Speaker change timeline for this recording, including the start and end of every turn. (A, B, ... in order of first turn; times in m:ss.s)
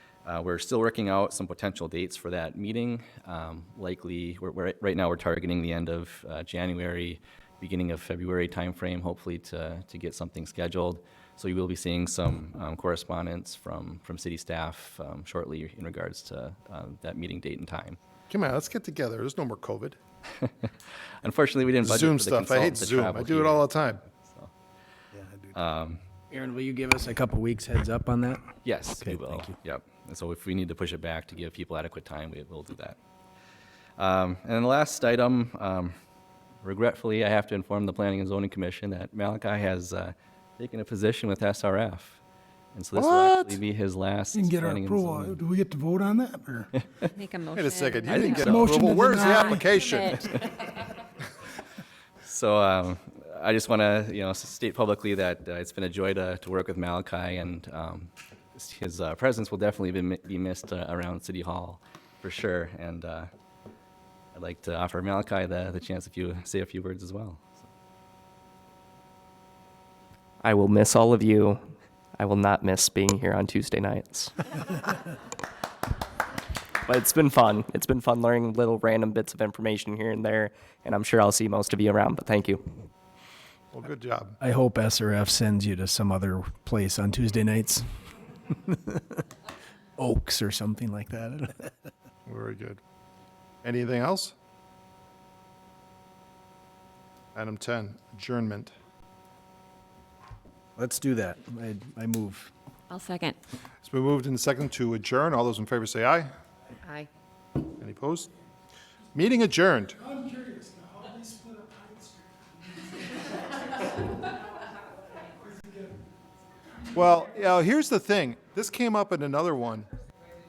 0:00.2-0:18.0 A
0:18.3-0:20.0 B
0:21.2-0:24.5 A
0:21.8-0:24.0 B
0:25.5-0:26.0 A
0:26.3-0:28.4 C
0:28.6-0:33.0 A
0:29.0-0:29.5 C
0:34.0-0:35.9 A
0:36.6-0:42.2 A
0:42.7-0:45.4 A
0:42.9-0:43.6 B
0:44.3-0:46.7 D
0:47.1-0:50.8 E
0:47.5-0:50.2 B
0:48.1-0:48.6 A
0:48.3-0:49.8 D
0:52.2-1:03.3 A
1:04.3-1:07.6 A
1:10.4-1:11.6 F
1:12.2-1:14.3 F
1:16.8-1:22.7 F
1:23.7-1:24.4 B
1:24.4-1:27.8 C
1:28.6-1:29.2 C
1:30.0-1:31.7 C
1:32.2-1:32.8 B
1:33.6-1:34.3 B
1:37.3-1:38.7 B
1:40.8-1:42.5 C
1:42.9-1:43.4 E
1:43.8-1:46.3 B
1:47.8-1:48.3 B
1:49.1-1:50.0 B
1:50.0-1:52.9 D
1:55.4-1:55.9 D
1:56.9-1:59.9 B